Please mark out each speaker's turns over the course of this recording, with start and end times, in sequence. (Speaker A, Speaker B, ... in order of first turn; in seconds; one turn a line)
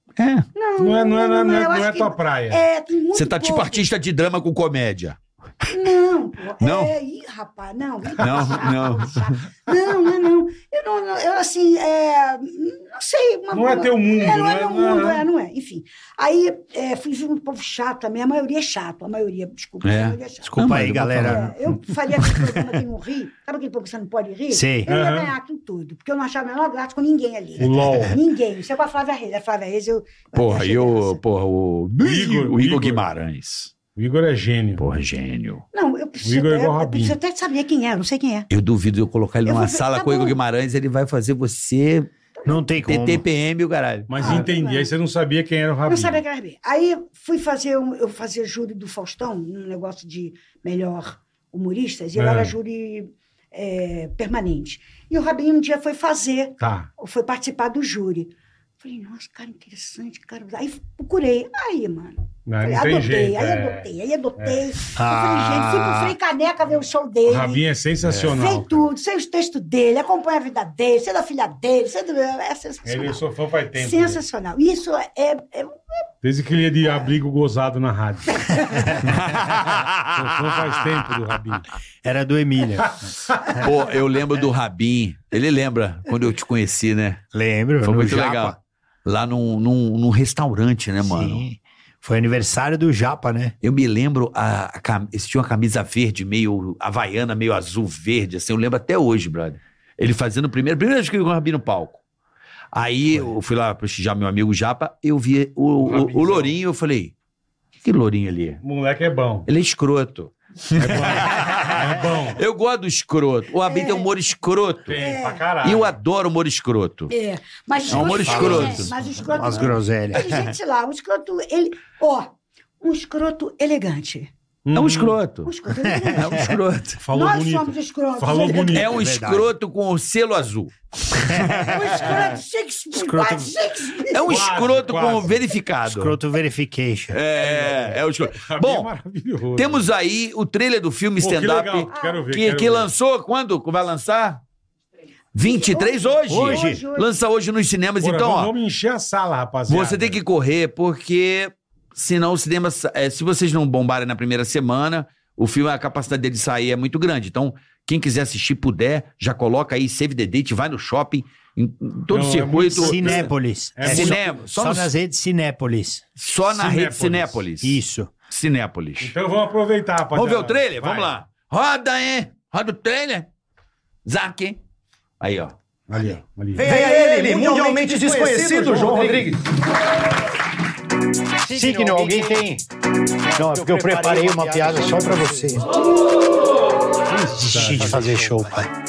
Speaker A: 0.2-0.5
Speaker B: 0.5-3.9
Speaker C: 0.8-2.6
Speaker A: 3.1-5.2
Speaker B: 5.7-31.2
Speaker A: 6.6-6.9
Speaker A: 8.2-9.4
Speaker C: 13.5-15.2
Speaker A: 19.8-21.5
Speaker D: 20.4-21.6
Speaker D: 24.5-24.9
Speaker C: 24.9-25.3
Speaker C: 27.6-28.2
Speaker A: 30.3-33.7
Speaker C: 32.0-33.0
Speaker C: 33.9-34.8
Speaker A: 34.8-35.6
Speaker B: 35.7-38.5
Speaker C: 36.2-37.1
Speaker A: 38.5-42.1
Speaker B: 39.5-40.4
Speaker B: 42.4-42.6
Speaker D: 42.5-43.2
Speaker A: 42.8-44.4
Speaker C: 44.1-46.2
Speaker B: 44.2-44.9
Speaker B: 45.9-67.6
Speaker C: 52.1-52.5
Speaker C: 56.6-56.9
Speaker C: 62.5-63.9
Speaker D: 65.0-66.1
Speaker C: 67.2-68.8
Speaker B: 68.2-73.2
Speaker C: 72.8-74.2
Speaker B: 73.7-75.8
Speaker C: 76.2-78.8
Speaker D: 78.7-79.1
Speaker A: 79.0-80.7
Speaker C: 80.1-81.7
Speaker D: 82.0-83.0
Speaker A: 83.6-87.2
Speaker D: 87.3-88.6
Speaker A: 87.8-91.4
Speaker D: 91.0-93.5
Speaker A: 93.6-102.0
Speaker A: 102.7-107.1
Speaker C: 105.8-106.6
Speaker A: 107.8-108.6
Speaker C: 108.6-109.5
Speaker A: 109.5-115.0
Speaker C: 110.8-112.4
Speaker B: 113.7-114.1
Speaker C: 114.9-115.9
Speaker B: 115.0-115.4
Speaker A: 115.6-117.1
Speaker B: 117.1-124.3
Speaker A: 117.9-118.9
Speaker D: 117.9-120.4
Speaker C: 124.7-125.2
Speaker A: 124.7-125.5
Speaker B: 125.4-126.5
Speaker D: 125.8-126.5
Speaker A: 126.1-127.0
Speaker C: 127.0-129.0
Speaker B: 127.1-128.8
Speaker A: 128.7-132.2
Speaker D: 128.9-129.5
Speaker D: 131.3-132.1
Speaker B: 131.6-134.6
Speaker D: 132.9-133.6
Speaker A: 134.1-136.2
Speaker C: 134.2-135.4
Speaker D: 135.8-137.2
Speaker A: 137.1-138.9
Speaker C: 137.4-139.9
Speaker A: 139.5-144.4
Speaker C: 141.2-142.9
Speaker B: 141.9-142.3
Speaker A: 145.3-148.5
Speaker B: 145.4-147.2
Speaker D: 146.3-146.8
Speaker C: 148.0-150.2
Speaker A: 149.7-163.3
Speaker C: 162.1-164.3
Speaker D: 162.7-166.0
Speaker A: 163.8-164.9
Speaker A: 166.2-169.1
Speaker C: 166.5-167.4
Speaker D: 167.6-168.1
Speaker C: 169.0-171.1
Speaker A: 170.1-173.3
Speaker A: 174.0-174.6
Speaker A: 175.2-175.5
Speaker C: 175.9-176.8
Speaker E: 176.6-179.4
Speaker D: 176.6-179.1
Speaker D: 181.4-182.6
Speaker E: 181.5-182.3
Speaker D: 183.3-185.6
Speaker E: 183.5-185.4
Speaker C: 187.1-188.1
Speaker D: 187.3-188.7